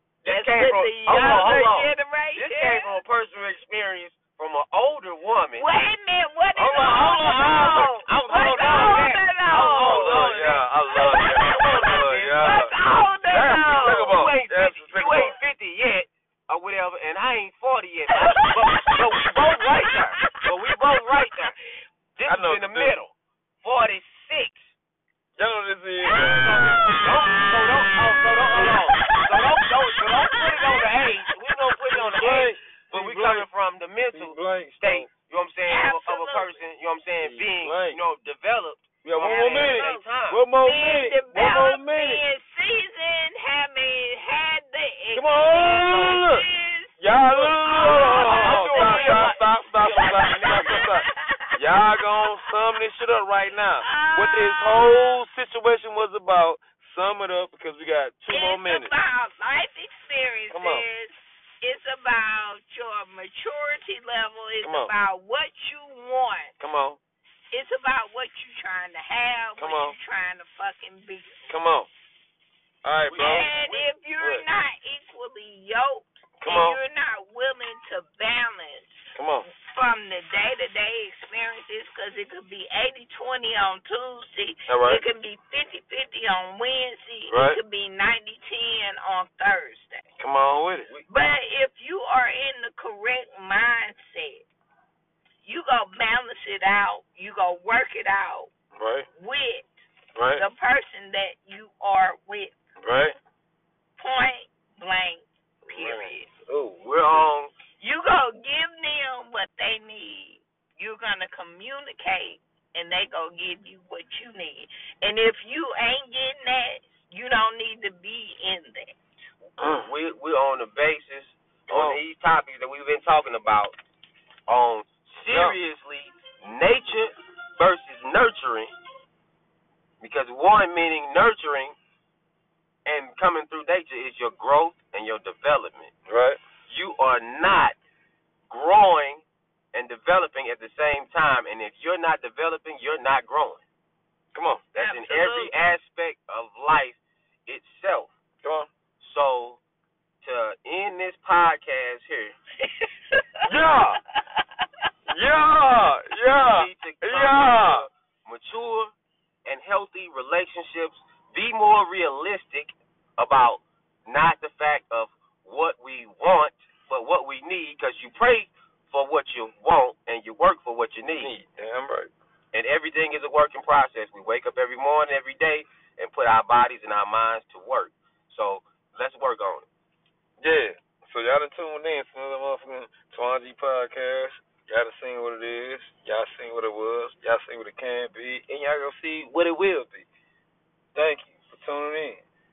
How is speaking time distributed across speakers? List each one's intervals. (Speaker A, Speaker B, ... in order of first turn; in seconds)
Speaker A: 0.2-5.7, 6.5-10.6, 11.2-12.6, 13.9-21.6, 22.2-24.7, 26.1-40.4, 47.7-50.9, 73.1-73.9, 106.9-107.3, 119.8-123.8, 124.5-128.7, 130.0-131.8, 132.9-135.9, 136.7-137.8, 138.5-143.6, 144.8-148.1, 149.0-149.6, 150.2-152.4, 156.5-158.9, 159.5-171.3, 172.5-179.7
Speaker B: 0.2-3.0, 5.6-14.2, 18.1-20.5, 26.0-30.9, 35.7-36.6, 39.2-51.5, 53.8-55.2, 58.3-66.5, 67.5-71.5, 73.1-90.1, 91.1-94.5, 95.4-98.5, 99.2-99.8, 100.4-102.5, 104.0-106.3, 107.8-119.0, 144.8-145.1, 152.7-153.5, 154.3-154.9
Speaker C: 1.1-1.8, 9.7-15.4, 22.2-23.0, 25.4-26.9, 31.9-33.5, 34.1-35.1, 37.2-38.0, 39.0-42.2, 45.1-46.5, 47.0-58.9, 60.5-60.9, 64.6-64.9, 66.6-67.0, 69.6-70.0, 71.5-71.9, 72.8-73.5, 74.2-74.5, 76.4-76.8, 79.2-79.5, 84.7-85.0, 87.3-87.6, 90.2-90.9, 98.7-99.1, 100.2-100.5, 102.8-103.2, 105.7-107.5, 119.6-119.9, 121.7-122.0, 125.3-125.6, 136.1-136.4, 144.3-145.5, 148.4-148.7, 153.5-154.0, 155.1-157.9, 171.2-172.1, 180.4-190.1, 190.9-192.2